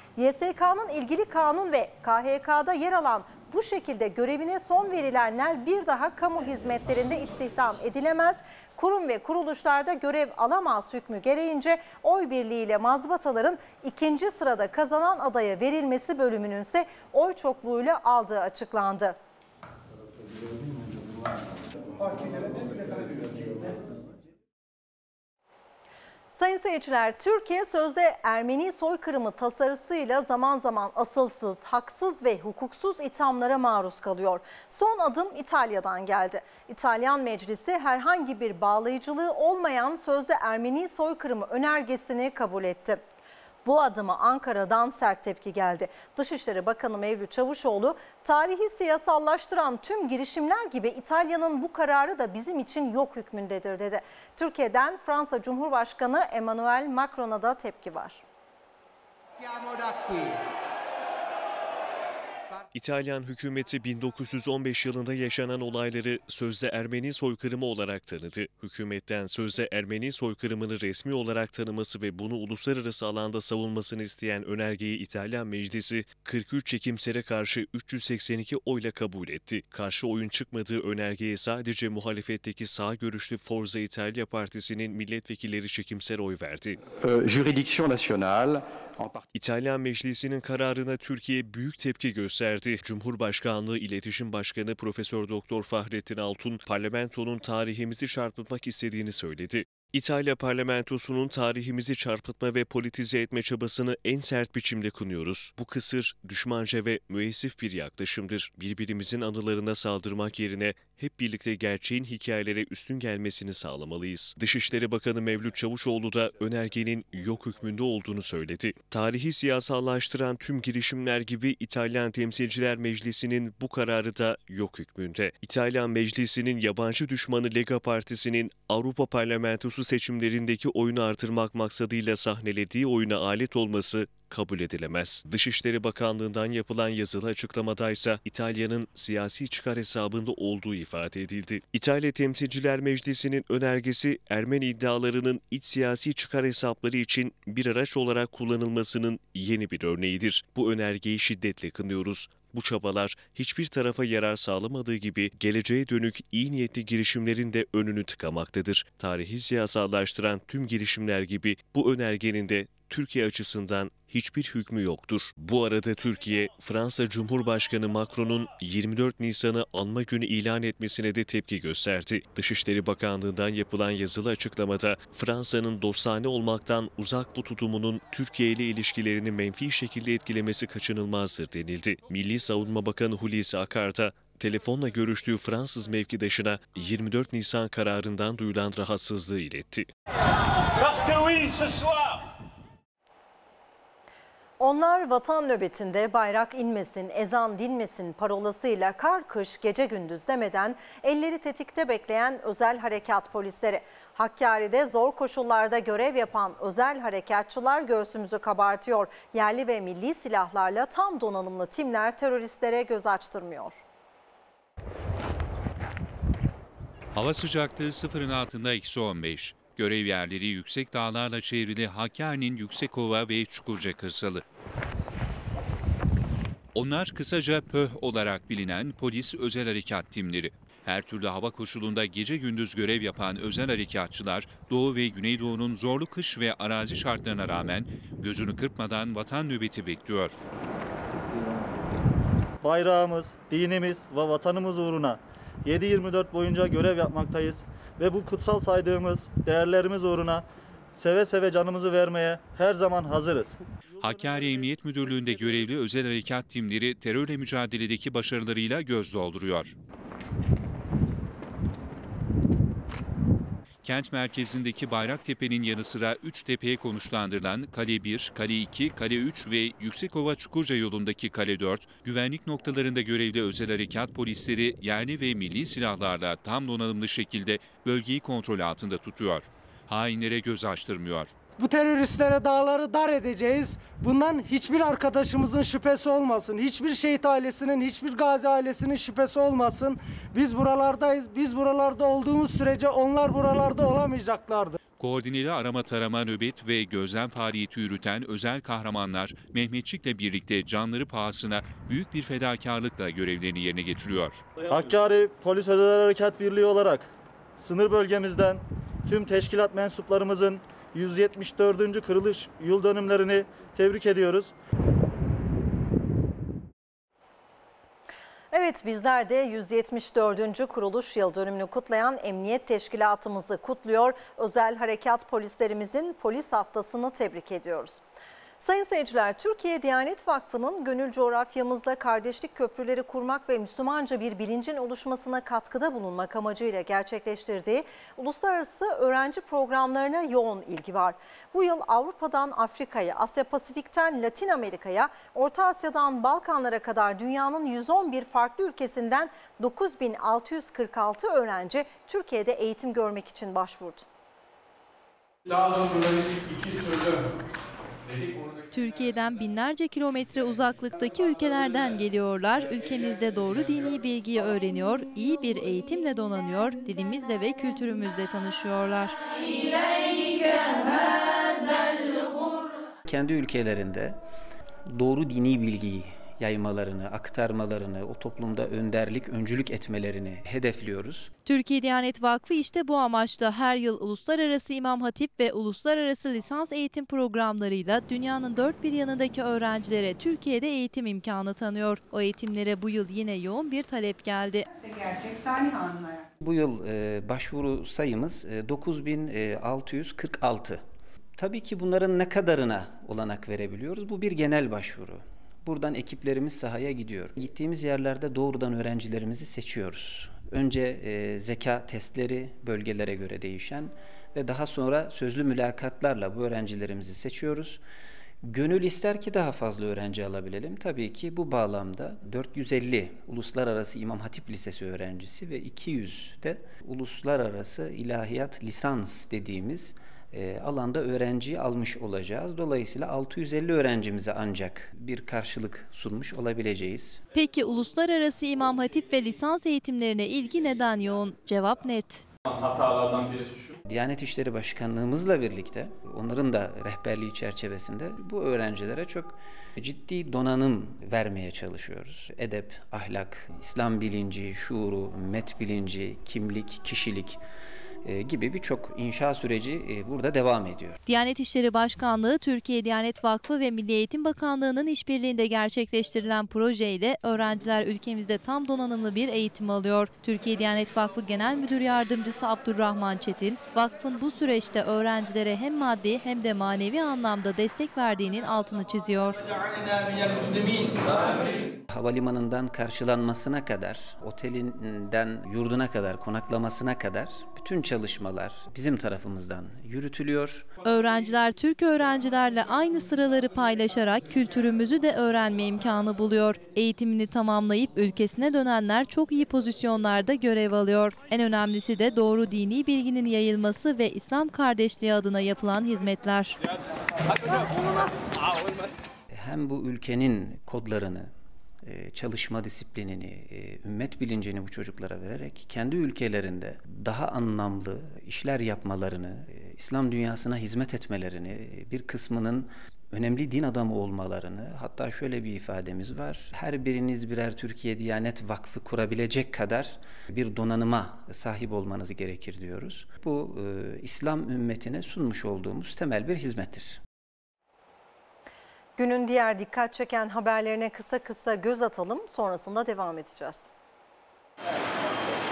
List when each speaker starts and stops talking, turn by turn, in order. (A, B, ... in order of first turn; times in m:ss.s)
0:00.2-0:19.2 A
0:26.3-0:43.0 A
0:43.6-0:58.2 A
1:02.7-1:26.8 B
1:27.0-1:29.2 C
1:29.3-3:09.9 B
3:10.9-3:11.9 D
3:14.6-3:33.8 A
3:37.1-3:44.4 E
3:46.7-4:00.4 E
4:02.6-4:13.6 F
4:14.0-4:19.7 E
4:23.8-4:41.3 E
4:41.6-4:54.8 G
4:55.0-5:04.4 E
5:04.7-5:14.5 F
5:18.5-5:28.0 A
5:28.6-5:54.0 A
5:55.4-5:57.3 D
5:58.0-5:58.6 D
5:58.7-6:11.9 H
6:13.0-6:14.2 I
6:14.9-6:21.3 I
6:21.4-6:34.6 H
6:36.4-6:40.8 I
6:41.4-6:57.8 I
6:58.4-7:17.2 I
7:17.3-7:22.2 H
7:23.8-7:37.4 I
7:38.0-7:41.0 I
7:41.0-7:59.4 H
7:59.8-8:01.5 D
8:01.9-8:10.7 I
8:10.8-8:26.5 H
8:27.3-8:28.8 D
8:29.3-8:31.3 I
8:31.8-8:57.0 I
8:59.0-9:03.7 A